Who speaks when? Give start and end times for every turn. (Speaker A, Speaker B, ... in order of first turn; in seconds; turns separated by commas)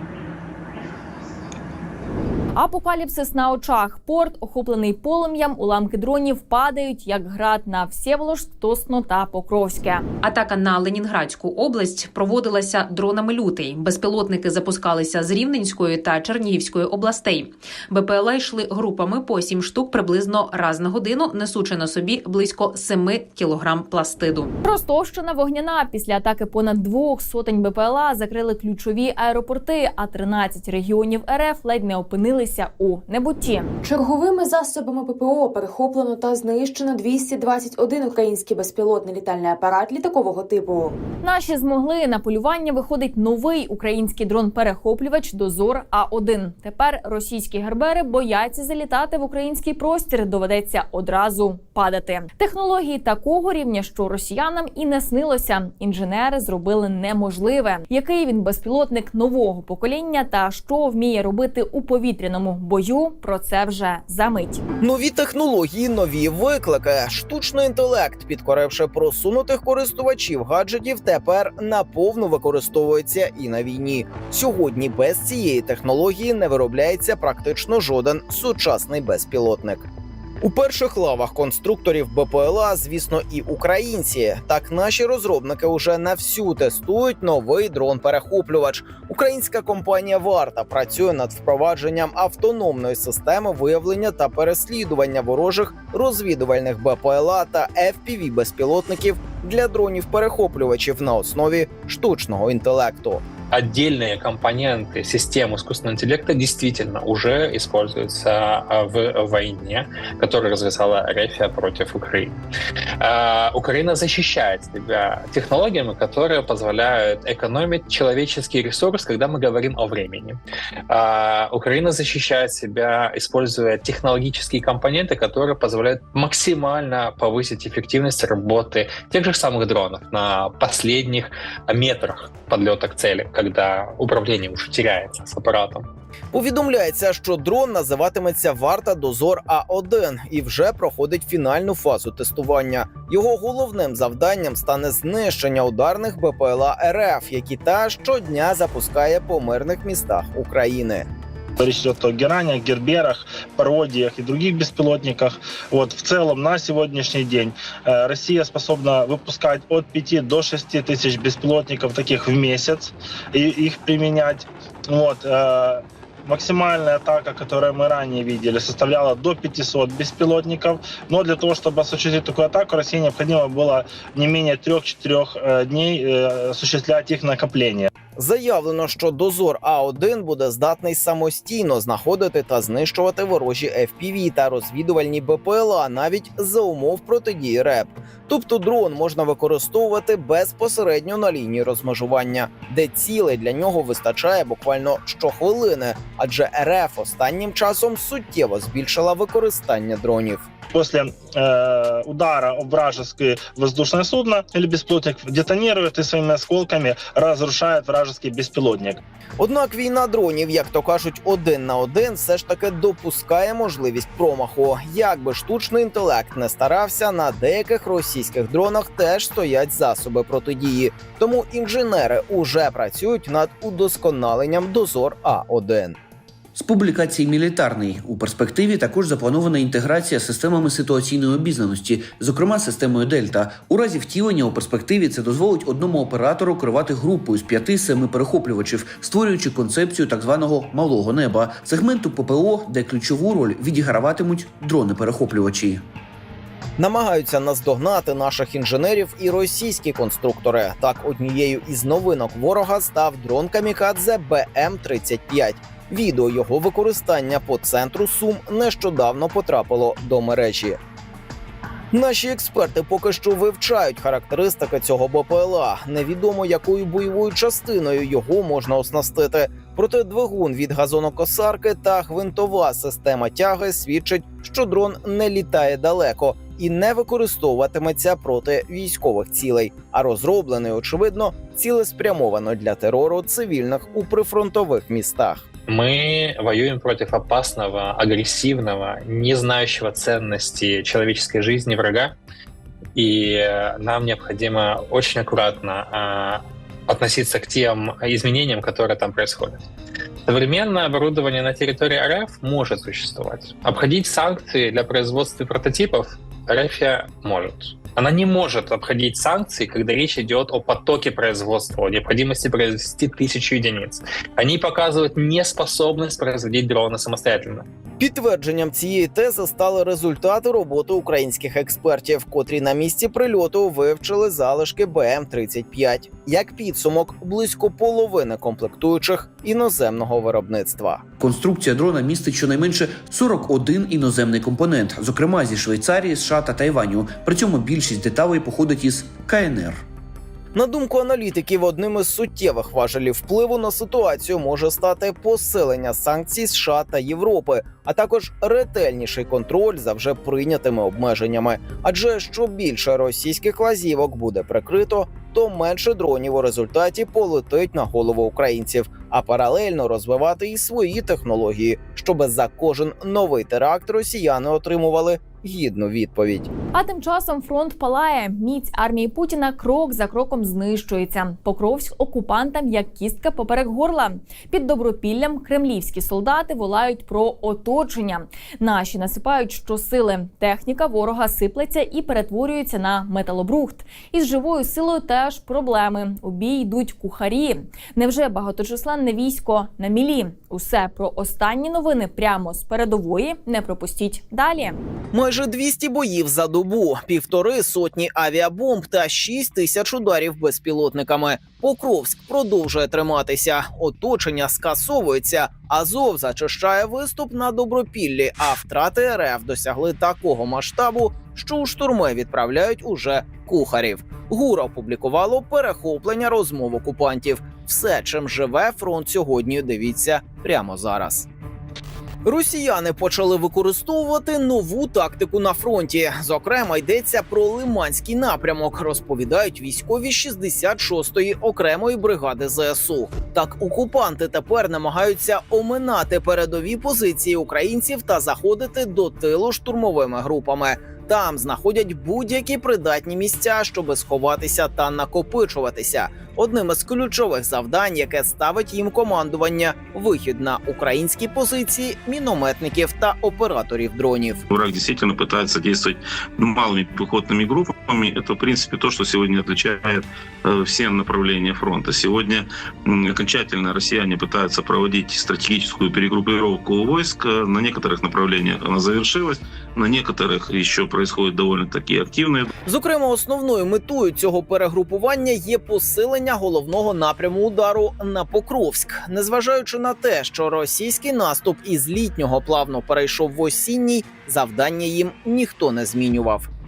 Speaker A: 2.6-10.1, Speaker B: 10.2-24.5, Speaker A: 24.6-33.7, Speaker C: 33.8-41.0, Speaker A: 41.2-64.6, Speaker D: 64.8-79.9, Speaker D: 80.4-103.2, Speaker E: 103.5-112.3, Speaker E: 113.0-120.4, Speaker E: 120.9-135.9, Speaker D: 136.3-151.1, Speaker F: 151.6-177.9, Speaker D: 178.2-200.5, Speaker F: 200.7-209.0, Speaker D: 209.4-226.0, Speaker G: 226.5-245.8, Speaker D: 246.8-260.8, Speaker D: 261.9-285.4, Speaker E: 285.7-292.1, Speaker E: 293.0-299.6, Speaker E: 300.3-317.6, Speaker D: 318.0-331.0, Speaker G: 331.2-339.8, Speaker D: 340.5-366.5, Speaker A: 366.7-394.8, Speaker D: 395.1-421.3, Speaker D: 422.2-454.4, Speaker H: 454.5-472.5, Speaker D: 472.7-486.5